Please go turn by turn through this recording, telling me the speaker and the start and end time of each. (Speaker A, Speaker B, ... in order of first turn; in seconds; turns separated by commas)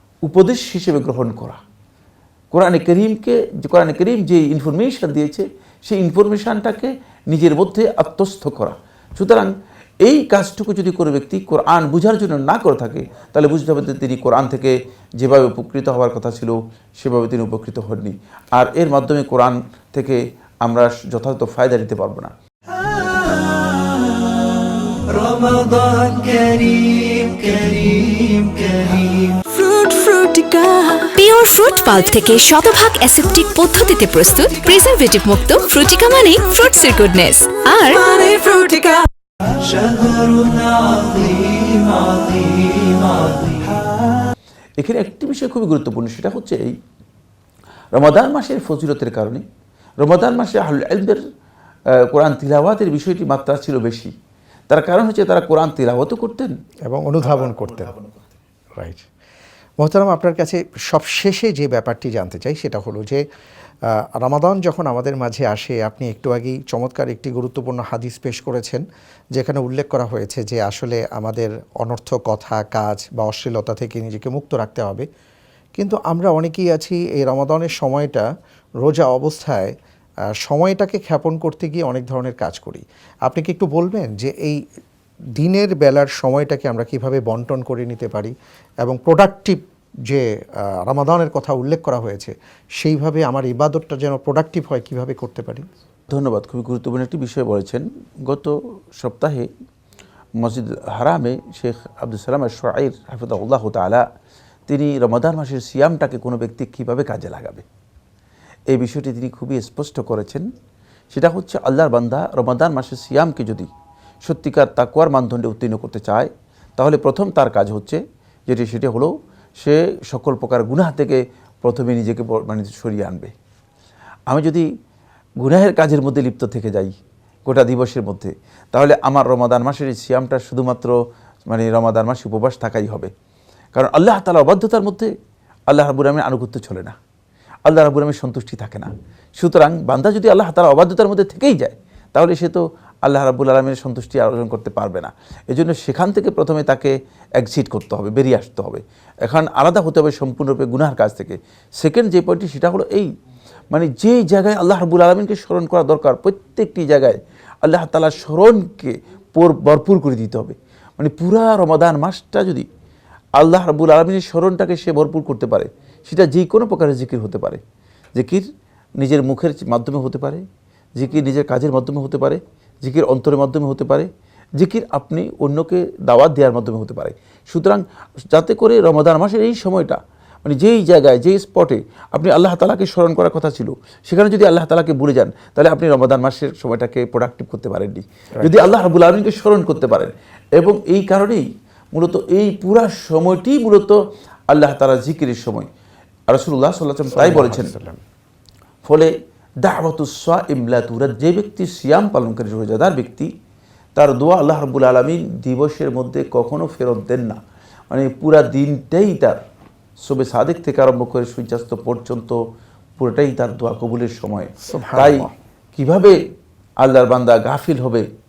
Speaker A: 0.2-1.6, Speaker A: 2.5-22.3, Speaker B: 22.9-23.9, Speaker B: 24.9-31.1, Speaker C: 31.1-38.4, Speaker B: 38.0-43.8, Speaker A: 44.8-46.7, Speaker A: 47.9-49.4, Speaker A: 50.0-51.2, Speaker A: 52.0-54.1, Speaker A: 54.7-56.5, Speaker D: 56.9-57.9, Speaker D: 58.8-59.0, Speaker D: 59.8-63.2, Speaker D: 64.2-68.8, Speaker D: 69.3-75.0, Speaker D: 75.8-78.2, Speaker D: 78.8-79.7, Speaker D: 80.4-84.6, Speaker D: 85.4-90.2, Speaker D: 90.8-95.6, Speaker A: 96.1-99.5, Speaker A: 100.4-104.0, Speaker A: 104.7-107.6, Speaker A: 108.7-110.5, Speaker A: 111.1-113.7, Speaker A: 114.2-123.3, Speaker A: 124.3-124.7, Speaker A: 125.4-130.9, Speaker A: 131.5-133.1, Speaker A: 133.7-135.1, Speaker A: 135.7-136.9, Speaker A: 137.7-153.1, Speaker A: 153.7-162.7, Speaker A: 163.4-167.6, Speaker A: 168.1-168.4, Speaker A: 169.0-170.4, Speaker A: 170.9-193.9, Speaker A: 194.5-195.7, Speaker A: 196.3-197.7, Speaker D: 197.1-198.0, Speaker A: 198.8-203.3, Speaker A: 203.9-209.4, Speaker A: 210.0-212.4, Speaker A: 213.0-216.2, Speaker D: 214.6-215.3, Speaker A: 216.8-218.0